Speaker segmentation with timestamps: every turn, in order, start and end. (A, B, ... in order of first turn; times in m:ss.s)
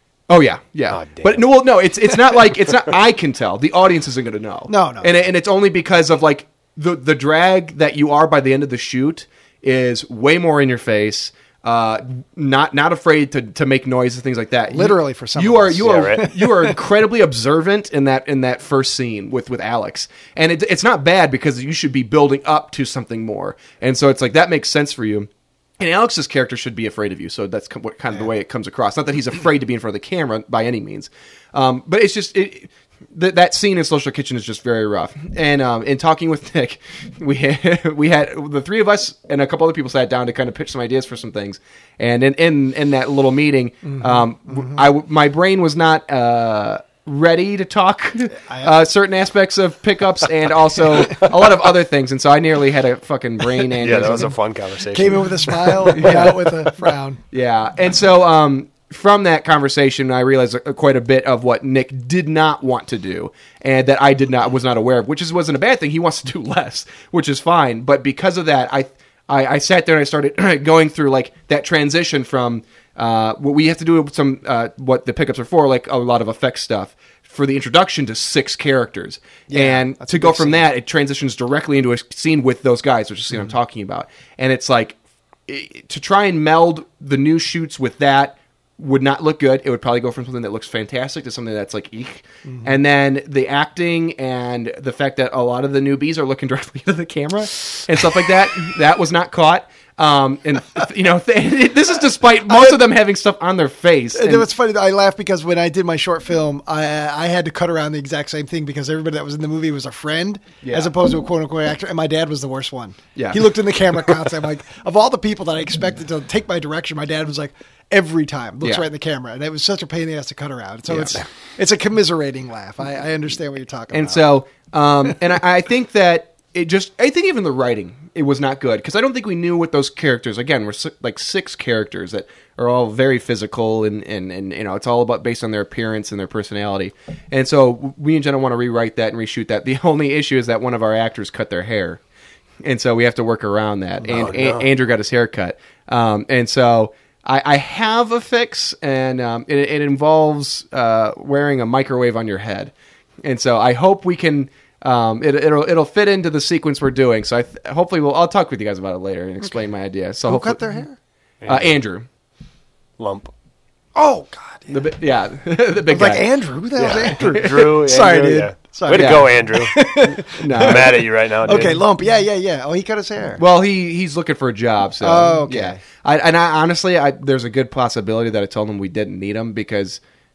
0:00.3-0:54.3 A
0:00.9-0:01.6 B
0:04.7-0:05.2 C
0:14.7-0:16.8 C
0:15.8-0:16.3 B
0:43.8-0:44.9 C
0:48.3-0:48.8 C
0:53.8-0:56.2 B
0:54.9-0:57.2 C
0:55.9-0:56.7 A
0:57.3-1:44.5 A
1:19.5-1:20.6 C
1:32.4-1:32.8 C
1:44.1-2:04.3 C
1:50.6-1:50.9 A
1:53.2-1:53.5 A
2:00.9-2:01.2 A
2:03.9-2:22.0 A
2:22.6-2:40.8 A
2:24.0-2:24.7 B
2:40.2-2:41.0 C
2:41.4-2:41.7 B
2:41.5-2:42.1 A
2:43.0-2:43.3 B
2:44.0-2:44.9 C
2:44.7-2:46.3 A
2:45.9-2:47.7 C
2:46.8-2:51.8 B
2:46.9-2:49.4 A
2:48.6-2:53.4 C
2:50.2-2:51.0 A
2:53.4-3:00.0 A
2:55.0-2:55.8 C